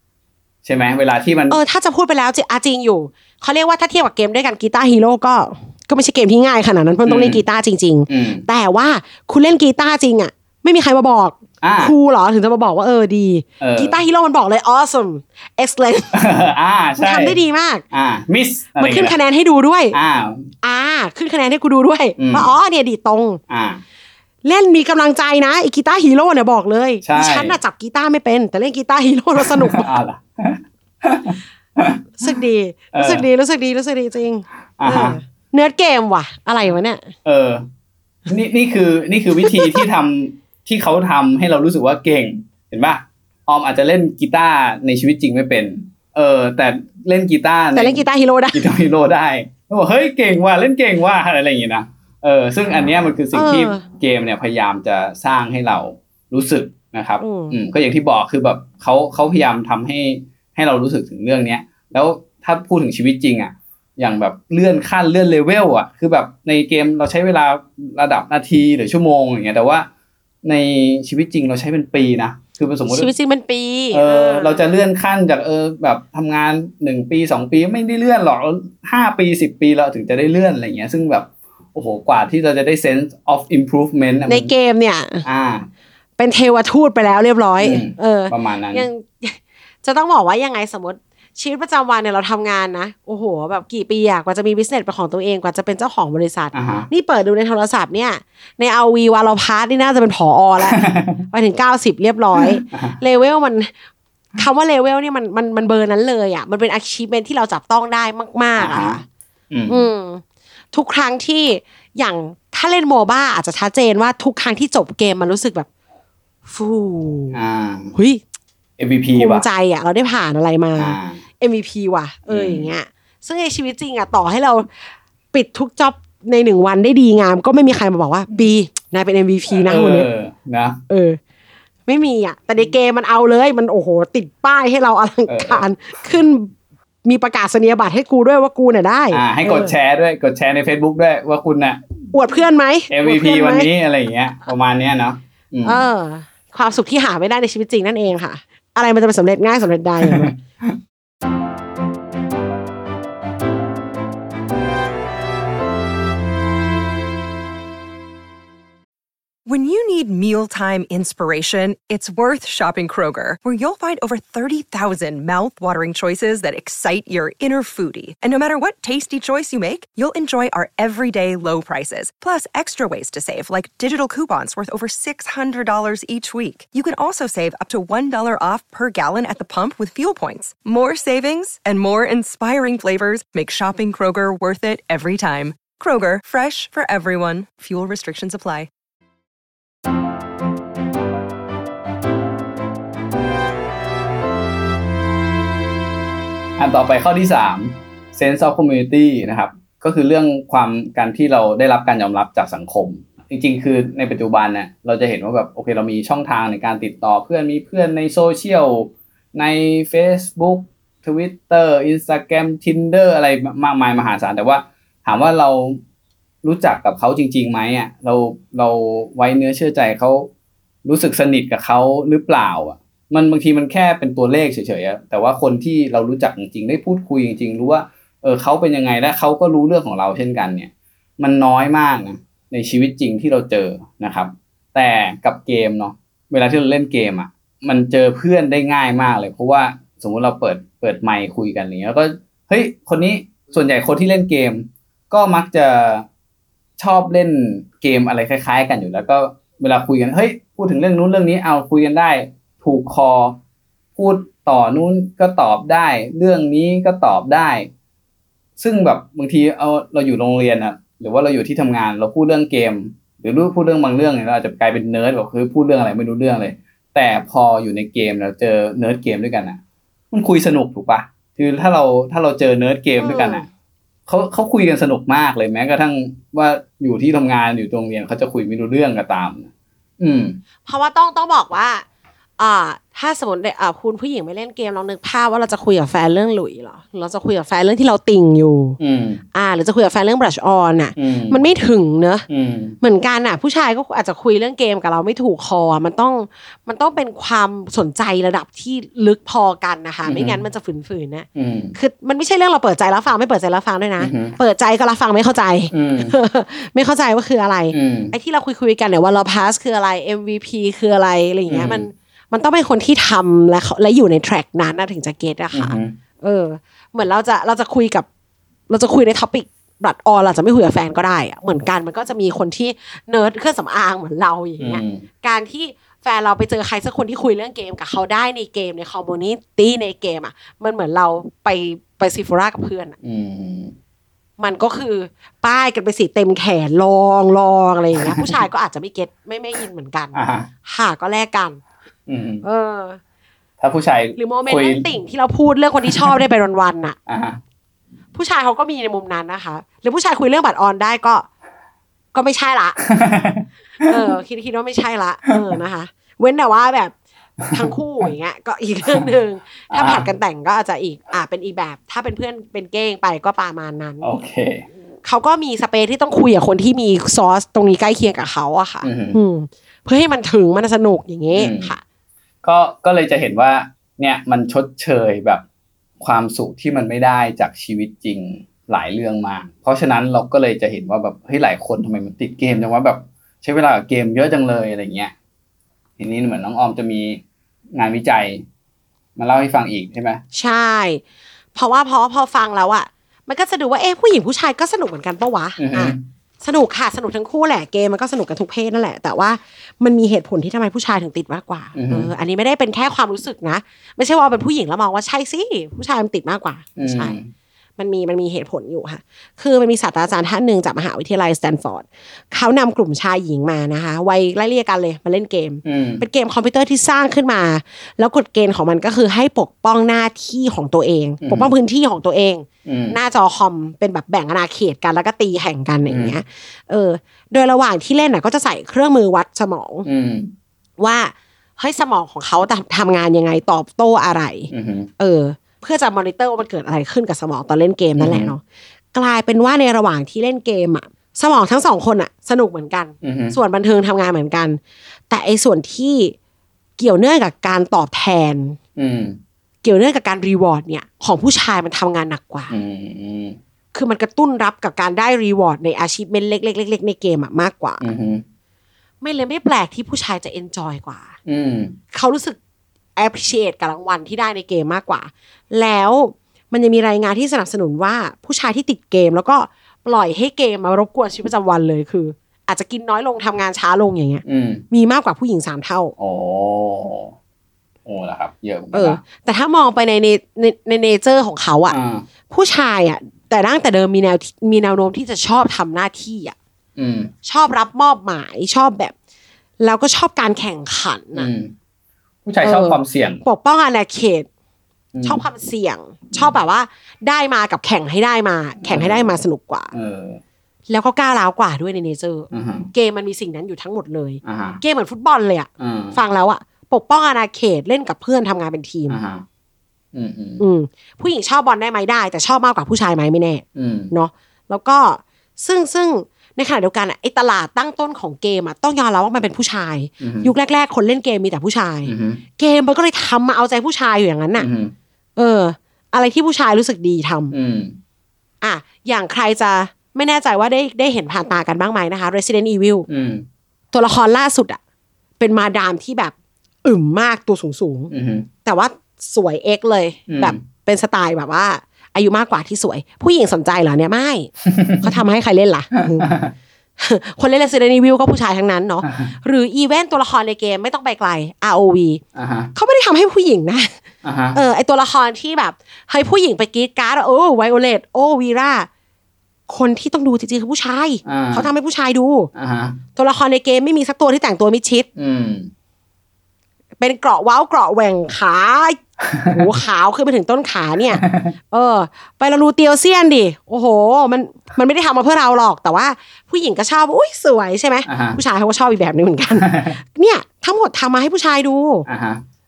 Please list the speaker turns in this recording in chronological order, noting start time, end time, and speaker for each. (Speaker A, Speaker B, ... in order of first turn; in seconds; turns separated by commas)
Speaker A: 0.6-1.6, Speaker B: 1.5-16.2, Speaker A: 7.0-7.4, Speaker A: 8.1-8.4, Speaker A: 11.6-11.9, Speaker A: 13.6-14.0, Speaker A: 16.1-17.4, Speaker B: 17.0-17.8, Speaker A: 17.9-19.2, Speaker B: 18.8-20.0, Speaker A: 19.9-20.5, Speaker B: 20.6-23.4, Speaker A: 22.2-22.5, Speaker A: 23.5-23.8, Speaker B: 24.4-29.8, Speaker A: 27.0-27.6, Speaker A: 29.4-32.3, Speaker B: 32.2-37.1, Speaker A: 32.9-33.3, Speaker A: 34.8-35.2, Speaker A: 37.2-37.6, Speaker A: 38.3-48.0, Speaker B: 39.4-39.8, Speaker B: 47.7-48.6, Speaker A: 48.5-69.9, Speaker B: 53.3-53.9, Speaker B: 57.2-57.6, Speaker A: 70.4-73.1, Speaker B: 72.9-74.7, Speaker A: 73.9-84.5, Speaker B: 84.3-85.2, Speaker A: 85.2-85.7, Speaker B: 86.2-103.7, Speaker A: 87.6-88.8, Speaker A: 96.5-96.9, Speaker A: 100.6-101.2, Speaker A: 102.4-103.0, Speaker B: 104.4-109.0, Speaker A: 108.6-109.0, Speaker A: 109.5-109.8, Speaker B: 109.7-115.7, Speaker B: 116.5-117.4, Speaker A: 117.3-117.9, Speaker B: 117.9-118.2, Speaker A: 118.8-119.4, Speaker B: 119.1-130.1, Speaker A: 120.8-121.2, Speaker A: 122.3-122.7, Speaker A: 129.6-130.8, Speaker B: 130.9-131.2, Speaker B: 131.9-136.5, Speaker A: 135.3-135.6, Speaker B: 137.0-139.7, Speaker A: 139.1-141.8, Speaker B: 142.1-143.7, Speaker A: 142.9-145.8, Speaker B: 145.6-150.3, Speaker A: 150.0-150.7, Speaker C: 159.4-188.7, Speaker A: 196.6-215.8, Speaker A: 216.4-220.3, Speaker A: 220.8-246.1, Speaker A: 246.8-253.4, Speaker A: 253.9-257.7, Speaker A: 258.6-269.6, Speaker A: 270.1-273.4, Speaker B: 273.0-273.4, Speaker A: 274.1-279.5, Speaker A: 280.0-280.4, Speaker B: 280.6-281.8, Speaker B: 282.4-288.8, Speaker A: 288.8-289.2, Speaker B: 289.3-292.2, Speaker A: 290.9-291.4, Speaker A: 292.3-292.8, Speaker B: 292.8-318.1, Speaker A: 300.0-300.4, Speaker A: 301.3-301.7, Speaker A: 304.0-304.4, Speaker A: 305.7-306.1, Speaker A: 307.7-308.1, Speaker A: 311.5-311.9, Speaker A: 315.5-315.9, Speaker B: 318.7-332.9, Speaker A: 324.6-325.0, Speaker A: 333.0-333.7, Speaker B: 334.4-341.6, Speaker A: 340.1-340.5, Speaker A: 342.1-342.4, Speaker B: 342.4-343.0, Speaker A: 343.6-344.9, Speaker B: 344.1-347.0, Speaker A: 347.1-347.4, Speaker B: 348.1-351.3, Speaker B: 352.1-352.8, Speaker A: 352.9-353.9, Speaker B: 353.8-356.9, Speaker B: 357.5-364.1, Speaker A: 359.7-360.1, Speaker A: 364.0-364.6, Speaker B: 365.0-371.8, Speaker A: 368.8-369.2, Speaker A: 371.3-371.7, Speaker A: 372.4-375.4, Speaker A: 376.0-385.1, Speaker A: 386.0-387.2, Speaker A: 387.7-388.4, Speaker A: 389.2-390.2, Speaker B: 390.3-391.0, Speaker B: 391.5-407.2, Speaker A: 395.6-396.0, Speaker A: 401.7-402.1, Speaker A: 406.8-407.3, Speaker B: 407.8-429.9, Speaker A: 415.6-416.0, Speaker A: 421.2-421.5, Speaker A: 422.6-423.0, Speaker A: 425.9-426.1, Speaker A: 429.8-430.3, Speaker B: 430.8-438.4, Speaker A: 434.5-434.9, Speaker A: 438.0-438.3, Speaker B: 438.9-446.1, Speaker A: 443.0-443.4, Speaker B: 446.8-448.6, Speaker A: 448.8-449.2, Speaker B: 449.6-452.5, Speaker A: 452.5-453.4, Speaker B: 453.7-457.8, Speaker A: 457.8-458.2, Speaker B: 459.0-461.1, Speaker A: 461.2-461.8, Speaker B: 461.9-462.4, Speaker B: 462.9-475.9, Speaker A: 474.2-474.6, Speaker A: 476.0-477.1, Speaker A: 477.9-479.0, Speaker B: 478.7-481.8, Speaker A: 481.7-482.0, Speaker B: 482.3-486.4, Speaker A: 486.8-487.1, Speaker B: 487.2-488.9, Speaker B: 489.6-491.3, Speaker A: 491.1-491.5, Speaker A: 492.2-493.2, Speaker B: 492.4-494.3, Speaker A: 494.9-495.2, Speaker B: 495.0-499.7, Speaker A: 498.6-499.1, Speaker A: 499.7-500.2, Speaker B: 500.7-509.0, Speaker A: 502.3-502.7, Speaker A: 504.2-504.6, Speaker A: 505.6-506.0, Speaker A: 508.9-509.2, Speaker A: 509.9-510.4, Speaker B: 510.4-524.5, Speaker A: 513.5-513.9, Speaker A: 520.0-520.3, Speaker A: 521.9-522.2, Speaker A: 524.4-524.7, Speaker B: 525.1-527.3, Speaker A: 527.3-527.8, Speaker B: 528.4-532.9, Speaker A: 532.9-533.2, Speaker B: 533.7-534.6, Speaker B: 535.2-536.1, Speaker B: 536.6-537.9, Speaker A: 537.9-538.3, Speaker B: 538.4-546.1, Speaker A: 540.1-540.4, Speaker A: 544.4-544.9, Speaker A: 545.8-546.3, Speaker B: 546.8-552.0, Speaker A: 548.9-549.1, Speaker A: 552.1-552.5, Speaker B: 552.5-553.7, Speaker A: 554.0-554.4, Speaker B: 554.3-558.7, Speaker B: 559.5-562.3, Speaker A: 561.0-561.5, Speaker A: 562.3-562.8, Speaker B: 563.0-564.9, Speaker A: 565.0-565.5, Speaker B: 566.8-581.9, Speaker A: 571.0-571.3, Speaker A: 577.9-578.2, Speaker A: 579.3-579.8, Speaker A: 581.9-582.2